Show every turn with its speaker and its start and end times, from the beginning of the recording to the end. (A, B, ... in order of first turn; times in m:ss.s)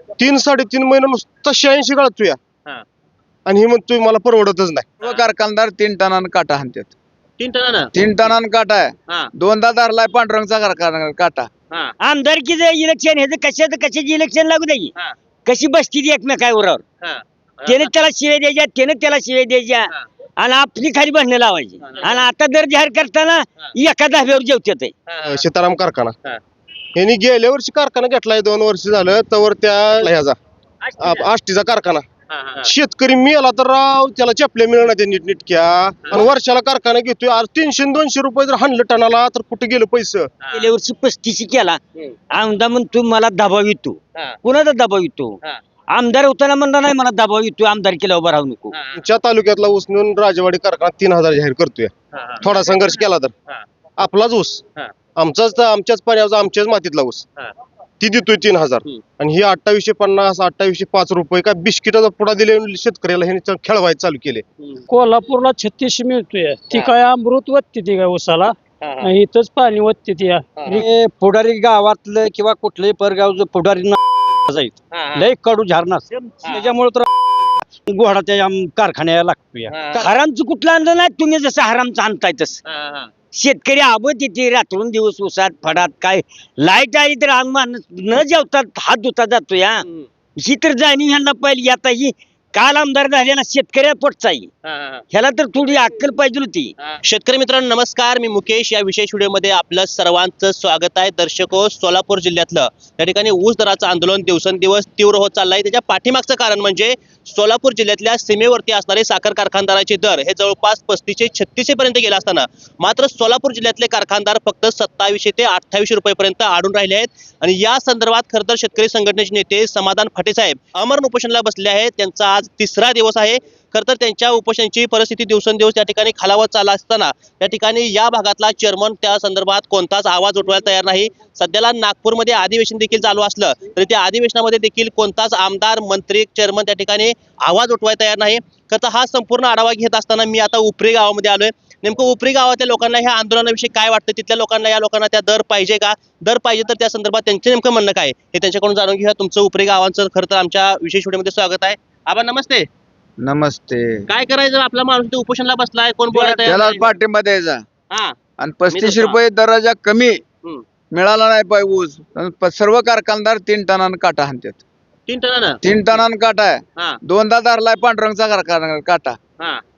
0:00.2-0:02.4 A
0:03.5-0:05.0 A
0:05.0-0:06.9 B
0:07.4-0:08.4 C
0:08.0-0:11.5 B
0:12.0-0:14.9 D
0:15.4-0:16.8 D
0:17.0-0:17.9 C
0:17.7-0:24.9 D
0:21.8-0:22.3 C
0:25.1-0:25.4 C
0:25.2-0:26.2 A
0:27.0-0:30.4 A
0:30.8-0:31.3 C
0:31.0-0:32.0 A
0:32.3-0:32.7 C
0:32.6-0:40.3 A
0:40.4-0:40.7 C
0:40.5-0:41.8 D
0:42.3-0:45.4 D
0:45.9-0:48.7 D
0:48.7-0:49.0 C
0:49.0-0:53.3 A
0:52.1-0:52.8 C
0:54.0-0:54.6 A
0:55.2-0:57.3 A
0:58.0-1:04.4 A
1:04.9-1:10.8 E
1:08.8-1:09.1 C
1:10.6-1:10.8 C
1:10.7-1:17.1 F
1:14.9-1:15.3 C
1:16.4-1:16.7 C
1:17.9-1:19.7 F
1:19.7-1:20.1 C
1:19.9-1:22.6 D
1:22.6-1:23.1 C
1:23.3-1:29.8 D
1:30.4-1:34.5 D
1:34.6-1:35.0 C
1:35.1-1:36.7 D
1:36.8-2:32.7 C
2:33.2-2:34.0 B
2:34.1-2:37.0 C
2:36.1-2:37.6 B
2:37.9-2:38.2 C
2:38.4-2:40.2 B
2:38.7-2:39.2 C
2:40.9-2:44.6 B
2:45.1-2:46.0 C
2:45.6-2:49.2 B